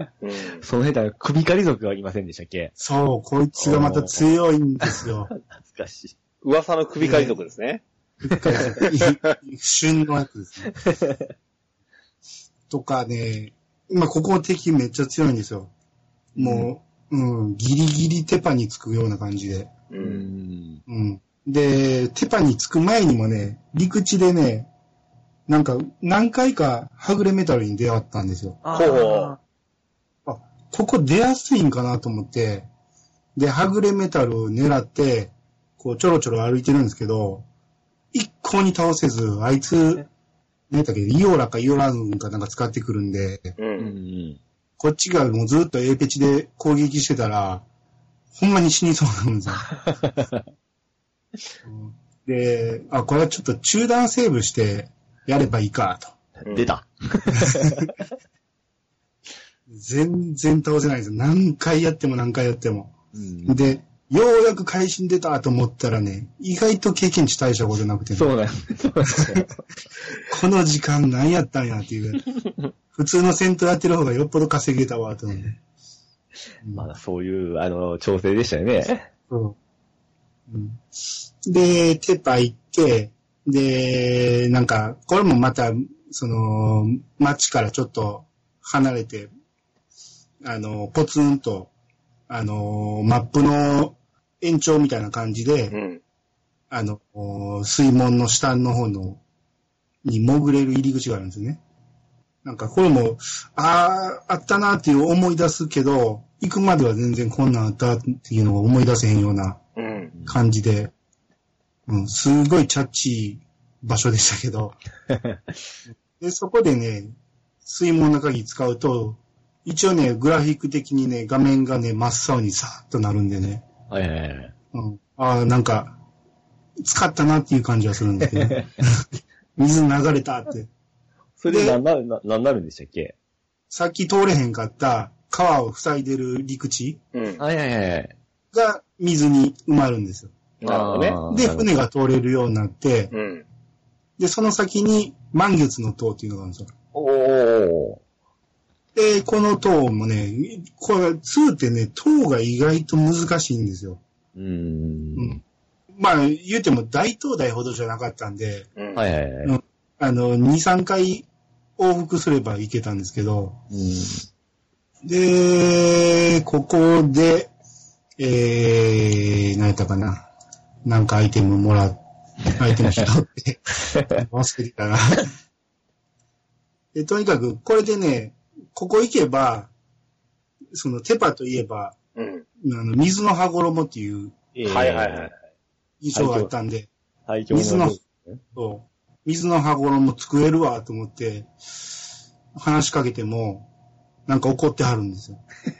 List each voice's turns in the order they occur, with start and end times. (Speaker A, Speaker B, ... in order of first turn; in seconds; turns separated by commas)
Speaker A: 0.2-0.6, Speaker B: 0.6-2.7, Speaker C: 2.8-5.3, Speaker B: 3.6-4.2, Speaker B: 4.9-6.2, Speaker A: 6.4-7.8, Speaker C: 7.0-7.4, Speaker C: 8.2-10.8, Speaker B: 8.3-8.7, Speaker A: 8.8-9.3, Speaker B: 10.8-11.2, Speaker C: 12.7-15.7, Speaker C: 16.4-19.7, Speaker A: 19.9-20.3, Speaker B: 20.0-20.8, Speaker C: 20.9-24.7, Speaker C: 25.5-28.6, Speaker B: 28.6-29.4, Speaker A: 28.7-29.4, Speaker C: 30.3-32.7, Speaker C: 33.4-37.5, Speaker C: 38.1-40.1, Speaker C: 40.7-43.6, Speaker A: 43.6-43.9, Speaker B: 43.8-44.4, Speaker C: 44.8-47.6, Speaker C: 48.4-49.7, Speaker B: 50.0-50.4, Speaker C: 51.6-56.1, Speaker A: 56.5-56.7, Speaker B: 56.5-57.9, Speaker C: 57.4-57.9, Speaker C: 59.7-62.9, Speaker B: 63.1-63.6, Speaker C: 63.5-68.3, Speaker B: 68.1-69.5, Speaker C: 69.2-69.5, Speaker C: 70.2-72.3, Speaker C: 72.9-75.6, Speaker C: 76.6-76.9, Speaker B: 76.7-79.0, Speaker C: 79.3-79.6, Speaker C: 80.5-80.8, Speaker C: 81.5-89.3, Speaker C: 90.5-91.7, Speaker C: 92.3-95.8, Speaker A: 95.7-96.0, Speaker C: 96.7-99.2, Speaker C: 100.0-101.6, Speaker C: 102.4-109.6, Speaker A: 109.8-110.2, Speaker C: 110.3-110.9, Speaker C: 111.9-114.8, Speaker B: 115.1-115.4, Speaker C: 115.9-123.6, Speaker B: 123.9-124.5, Speaker C: 124.7-125.9, Speaker C: 126.8-129.1, Speaker C: 129.6-130.7, Speaker B: 131.4-133.2, Speaker C: 131.5-131.8, Speaker C: 133.7-137.0, Speaker A: 137.1-137.4, Speaker B: 137.4-138.1, Speaker C: 138.5-140.3, Speaker A: 140.6-141.2, Speaker B: 140.6-141.7, Speaker C: 141.3-143.1, Speaker A: 143.1-143.4, Speaker C: 144.2-146.7, Speaker B: 146.9-148.0, Speaker C: 148.9-154.0, Speaker B: 154.3-155.4, Speaker C: 156.0-158.7, Speaker A: 158.8-159.1, Speaker B: 158.9-159.5, Speaker C: 159.4-161.3, Speaker C: 161.8-163.6, Speaker B: 163.7-164.2, Speaker C: 165.1-167.5, Speaker C: 168.2-170.3, Speaker C: 170.9-172.0, Speaker C: 172.5-175.3, Speaker C: 176.9-179.7, Speaker C: 180.7-182.0, Speaker A: 182.2-182.4, Speaker C: 182.6-184.3, Speaker B: 184.6-185.3, Speaker A: 184.7-185.4, Speaker C: 186.0-186.9, Speaker B: 186.1-186.5, Speaker B: 187.3-188.4, Speaker C: 187.5-188.0, Speaker C: 188.6-191.5, Speaker C: 192.6-193.7, Speaker C: 194.3-195.4